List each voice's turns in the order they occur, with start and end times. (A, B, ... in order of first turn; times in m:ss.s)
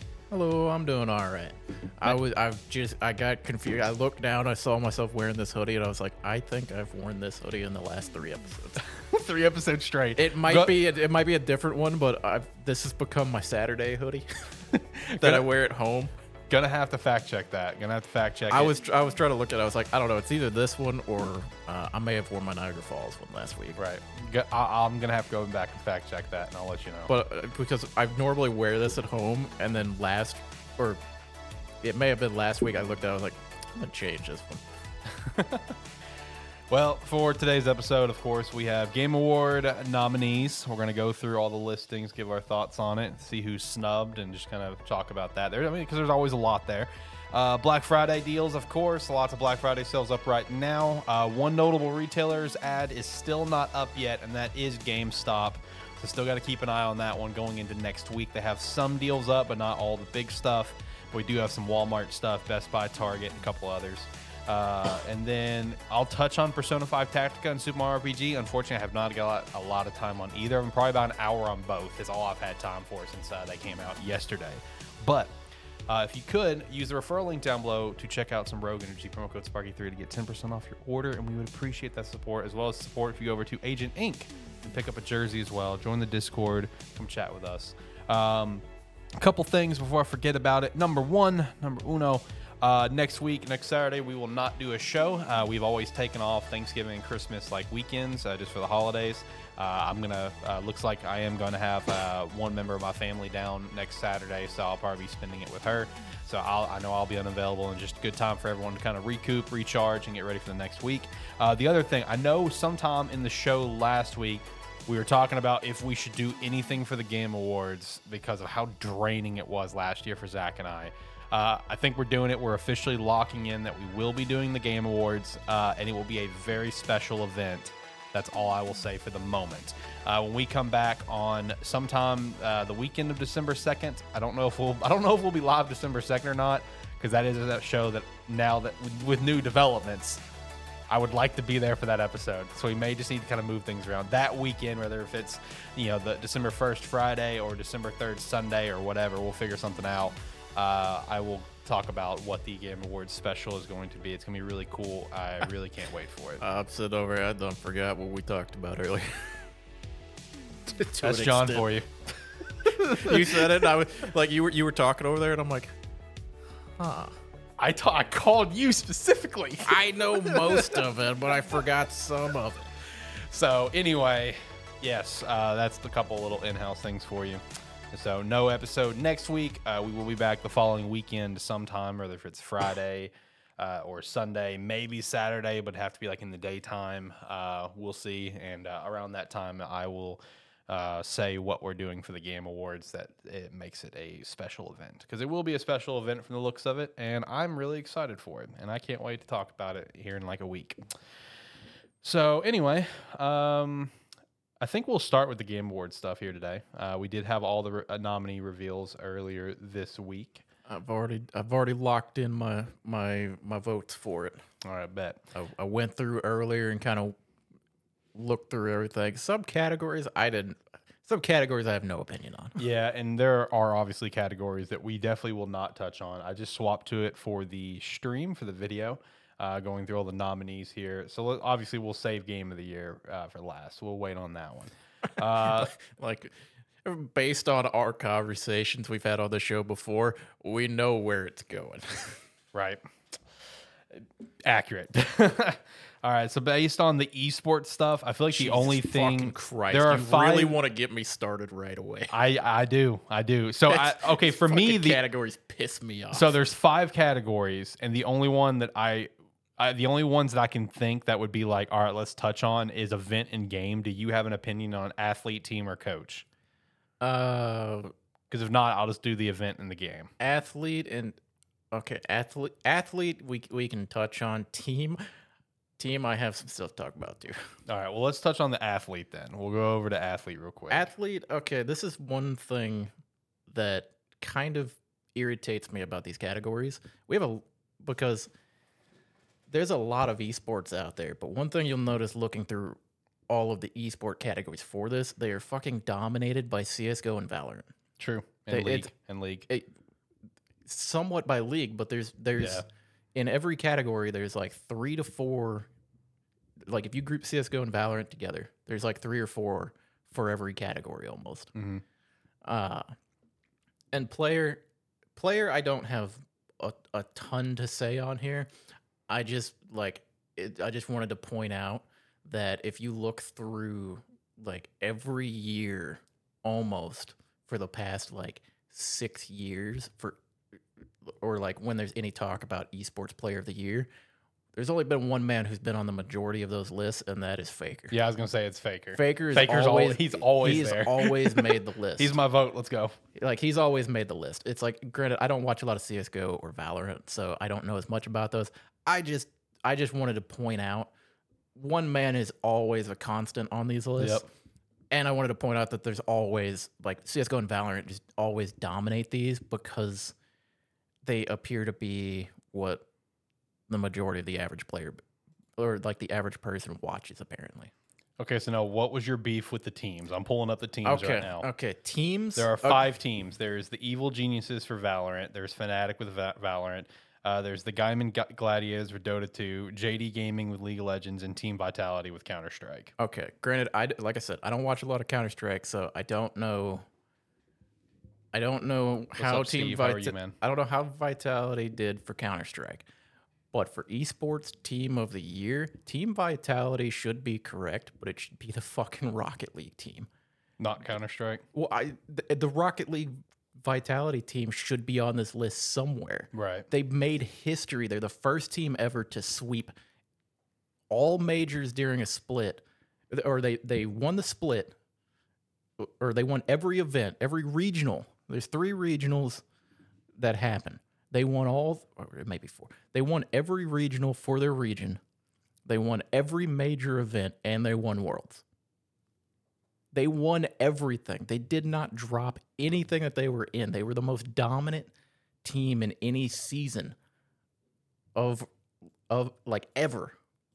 0:00.3-0:08.8 A
0:08.9-0:10.8 B
0:10.2-0:16.1 A
0:14.8-0:15.4 B
0:16.5-0:18.8 B
0:18.5-0:23.8 A
0:23.8-0:27.1 B
0:27.1-0:31.0 A
0:31.8-0:34.6 A
0:35.2-0:35.7 B
0:36.7-1:15.3 B
1:15.9-1:28.6 B
1:29.2-2:20.2 B
2:20.9-2:36.4 B
2:36.4-2:39.5 A
2:40.7-2:41.7 A
2:41.0-2:41.9 B
2:42.5-2:43.6 B
2:42.6-2:45.8 A
2:46.8-2:47.2 A
2:47.6-2:50.8 B
2:49.6-2:52.7 A
2:53.0-3:20.8 B
3:22.0-3:23.9 B
3:24.6-3:30.4 B
3:30.7-3:34.4 A
3:34.6-3:35.2 B
3:35.3-3:37.2 A
3:38.2-3:42.6 A
3:42.6-3:55.7 B
3:55.4-3:56.3 A
3:56.8-4:02.2 A
4:02.5-4:02.8 B
4:03.9-4:10.6 B
4:08.3-4:12.1 A
4:12.1-4:15.0 B
4:13.7-4:16.4 A
4:16.1-4:26.2 B
4:27.0-4:27.9 A
4:28.3-4:30.1 B
4:30.2-4:31.2 A
4:31.7-4:35.0 A
4:35.8-4:37.4 A
4:37.7-4:40.9 B
4:40.7-4:42.9 A
4:43.5-4:48.3 A
4:49.5-4:52.8 A
4:53.3-4:57.7 A
4:58.0-4:59.5 B
4:58.5-4:58.9 A
5:00.7-5:02.6 A
5:02.4-5:02.6 B
5:03.2-5:05.7 A
5:06.7-5:11.5 A
5:11.6-5:11.8 B
5:12.4-5:12.9 A
5:13.9-5:14.6 A
5:15.2-5:18.5 A
5:19.1-5:30.2 A
5:31.1-5:33.9 A
5:34.5-5:37.9 A
5:37.9-5:43.0 B
5:38.9-5:42.2 A
5:43.2-5:50.9 A
5:51.6-5:54.3 A
5:54.9-6:00.1 A
6:01.0-6:02.8 A
6:03.7-6:05.0 A
6:05.6-6:07.7 A
6:08.2-6:11.5 B
6:10.8-6:12.9 A
6:12.4-6:22.9 B
6:23.0-6:26.8 A
6:28.3-6:32.9 A
6:29.2-6:30.4 B
6:33.5-6:40.1 A
6:40.6-6:41.4 B
6:41.5-6:49.7 A
6:46.3-6:46.7 B
6:50.9-6:54.7 A
6:55.8-6:59.4 A
7:00.2-7:05.0 A
7:05.7-7:08.4 A
7:09.9-7:14.9 A
7:15.4-7:17.0 A
7:18.2-7:18.5 A
7:19.1-7:20.2 A